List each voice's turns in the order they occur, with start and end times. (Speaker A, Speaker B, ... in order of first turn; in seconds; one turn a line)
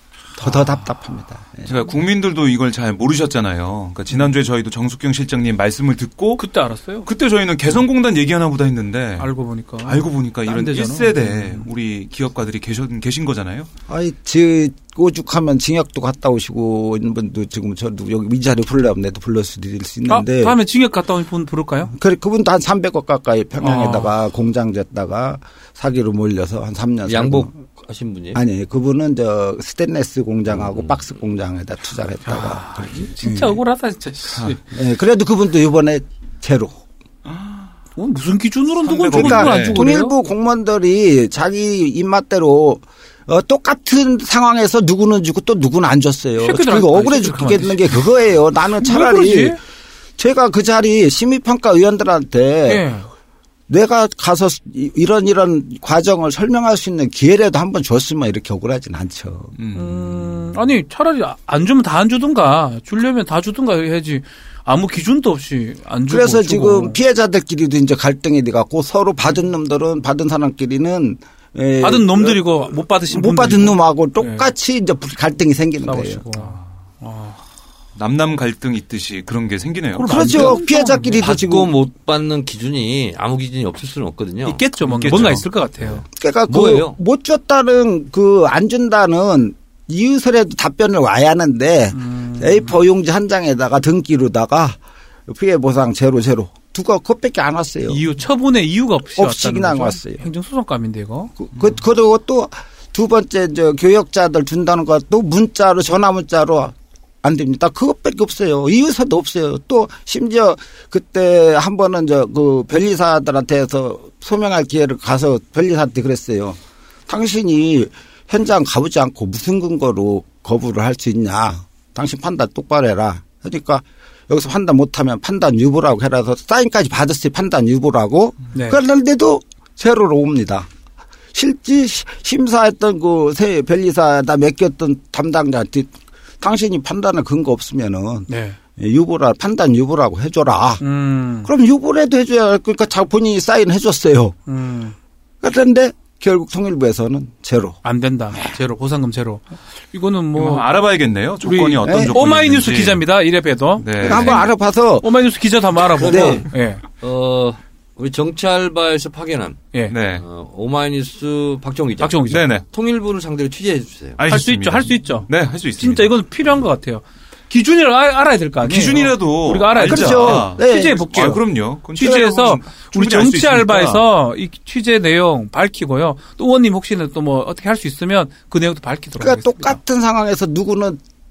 Speaker A: 0.3-1.7
Speaker B: 0.4-0.8
Speaker C: 1.6-6.4
Speaker B: 6.4-7.1
Speaker C: 7.0-9.3
Speaker B: 9.2-11.7
Speaker C: 9.8-13.7
Speaker A: 13.9-20.6
Speaker B: 20.1-21.9
Speaker A: 21.9-27.5
Speaker B: 23.6-24.1
Speaker D: 27.1-28.4
Speaker A: 28.3-33.6
Speaker D: 30.5-31.0
Speaker B: 32.2-34.6
Speaker A: 34.7-36.8
Speaker C: 37.3-37.6
Speaker B: 38.0-40.1
Speaker C: 38.8-39.8
Speaker A: 39.1-49.6
Speaker B: 46.4-48.1
Speaker B: 48.8-49.6
Speaker A: 50.2-52.8
Speaker B: 52.7-53.1
Speaker A: 53.7-59.5
Speaker C: 59.6-60.2
Speaker B: 59.7-67.0
Speaker A: 66.1-72.4
Speaker B: 71.8-74.5
Speaker A: 73.1-76.2
Speaker B: 75.8-77.4
Speaker C: 78.0-80.1
Speaker A: 79.9-81.7
Speaker B: 80.0-81.3
Speaker D: 81.1-84.6
Speaker B: 84.4-86.0
Speaker C: 84.8-85.4
Speaker D: 85.1-87.0
Speaker A: 86.2-98.0
Speaker B: 91.9-92.8
Speaker B: 97.9-101.3
Speaker A: 99.1-100.2
Speaker A: 101.4-130.7
Speaker B: 128.5-128.8
Speaker A: 131.3-140.8
Speaker B: 138.3-138.6
Speaker B: 140.8-141.5
Speaker A: 141.4-144.3
Speaker B: 144.5-144.9
Speaker A: 145.4-147.8
Speaker B: 147.8-150.7
Speaker C: 150.3-153.0
Speaker B: 151.4-154.4
Speaker A: 151.8-152.1
Speaker C: 153.8-154.4
Speaker A: 154.0-155.1
Speaker B: 155.0-156.8
Speaker D: 155.9-156.5
Speaker A: 156.0-156.4
Speaker D: 157.0-164.2
Speaker C: 159.9-160.2
Speaker B: 162.0-162.5
Speaker C: 162.3-162.6
Speaker C: 164.2-166.1
Speaker B: 164.3-179.8
Speaker C: 168.6-174.0
Speaker A: 169.8-171.3
Speaker A: 179.2-181.0